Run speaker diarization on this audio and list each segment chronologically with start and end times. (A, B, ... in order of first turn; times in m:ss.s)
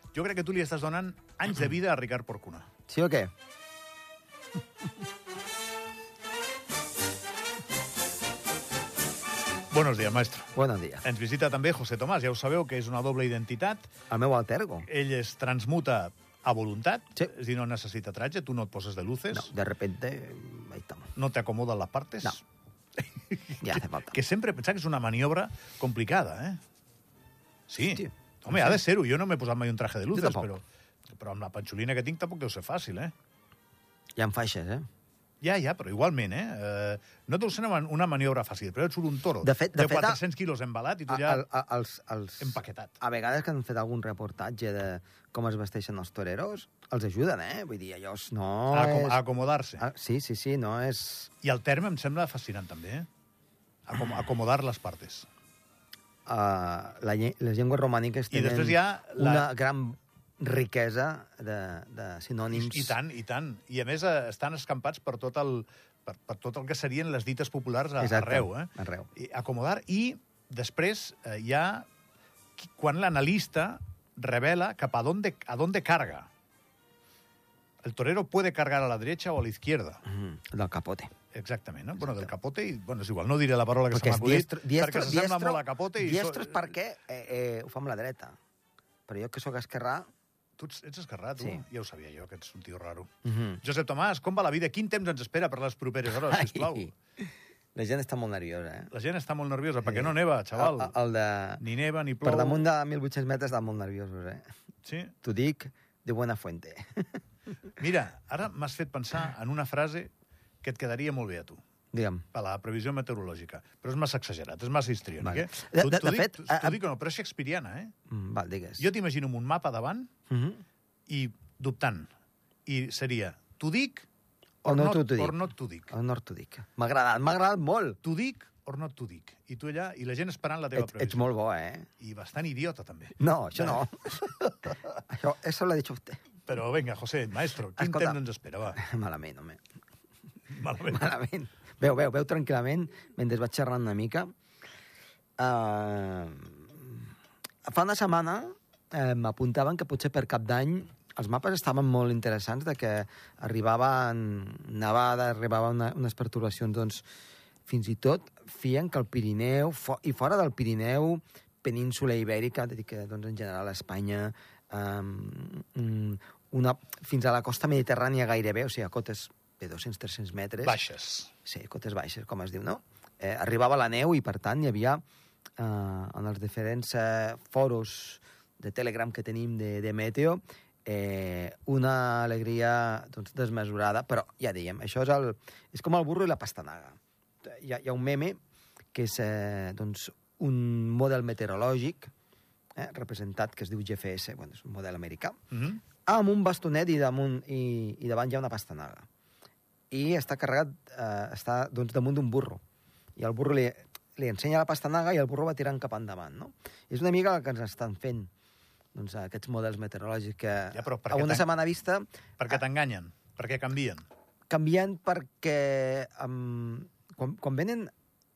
0:00.1-0:02.7 A
0:02.9-0:03.3 B
0:09.7-0:10.5 A
0:10.5-0:11.0 B
0:11.0-0:13.9 A
0:14.1-0:14.9 B
0:14.8-0:19.5 A
0:19.3-0:21.1 B
0:21.2-0:22.4 A
0:23.2-0:26.6 A
0:23.6-0:24.2 B
0:27.7-0:33.1 A
0:28.0-0:28.8 B
0:30.1-0:30.5 B
0:34.2-0:34.9 B
0:35.4-0:41.4 A
0:39.4-0:40.2 B
0:41.1-0:49.2 B
0:42.4-0:43.0 A
0:48.7-0:49.8 A
0:49.8-0:51.3 B
0:51.4-0:53.1 A
0:53.9-0:55.3 A
0:56.3-1:03.0 B
0:58.3-0:59.5 A
1:02.5-1:11.9 A
1:08.0-1:09.1 B
1:12.6-1:16.3 A
1:17.8-1:20.0 A
1:20.0-1:21.1 B
1:21.3-1:26.7 A
1:23.9-1:28.4 B
1:29.1-1:30.1 B
1:30.6-1:33.1 A
1:33.2-1:33.6 B
1:33.6-1:36.9 A
1:36.1-1:38.9 B
1:38.9-1:41.0 A
1:39.8-1:41.6 B
1:41.6-1:42.7 A
1:42.2-1:44.4 B
1:44.8-1:45.1 A
1:45.2-1:47.2 B
1:47.8-1:50.1 A
1:50.6-1:51.6 A
1:51.9-1:52.2 B
1:52.3-1:57.9 A
1:55.2-1:56.8 B
1:58.1-1:58.9 B
1:58.8-2:00.1 A
2:00.3-2:00.6 B
2:01.1-2:02.1 A
2:02.7-2:04.1 A
2:04.6-2:08.0 B
2:04.6-2:05.9 A
2:08.0-2:11.2 A
2:10.8-2:11.9 B
2:12.0-2:13.8 A
2:13.2-2:16.2 B
2:16.5-2:18.8 A
2:17.8-2:19.6 B
2:20.5-2:21.0 A
2:20.7-2:24.3 B
2:25.4-2:27.1 B
2:27.7-2:37.0 B
2:37.7-2:50.8 B
2:50.6-2:51.3 A
2:51.4-2:55.0 B
2:55.6-3:08.4 B
3:08.9-3:12.1 B
3:12.8-3:15.4 B
3:15.5-3:15.8 A
3:16.0-3:19.0 B
3:19.9-3:22.6 B
3:23.2-3:28.3 B
3:28.9-3:32.1 B
3:30.7-3:31.5 A
3:32.4-3:34.0 A
3:34.5-3:37.9 B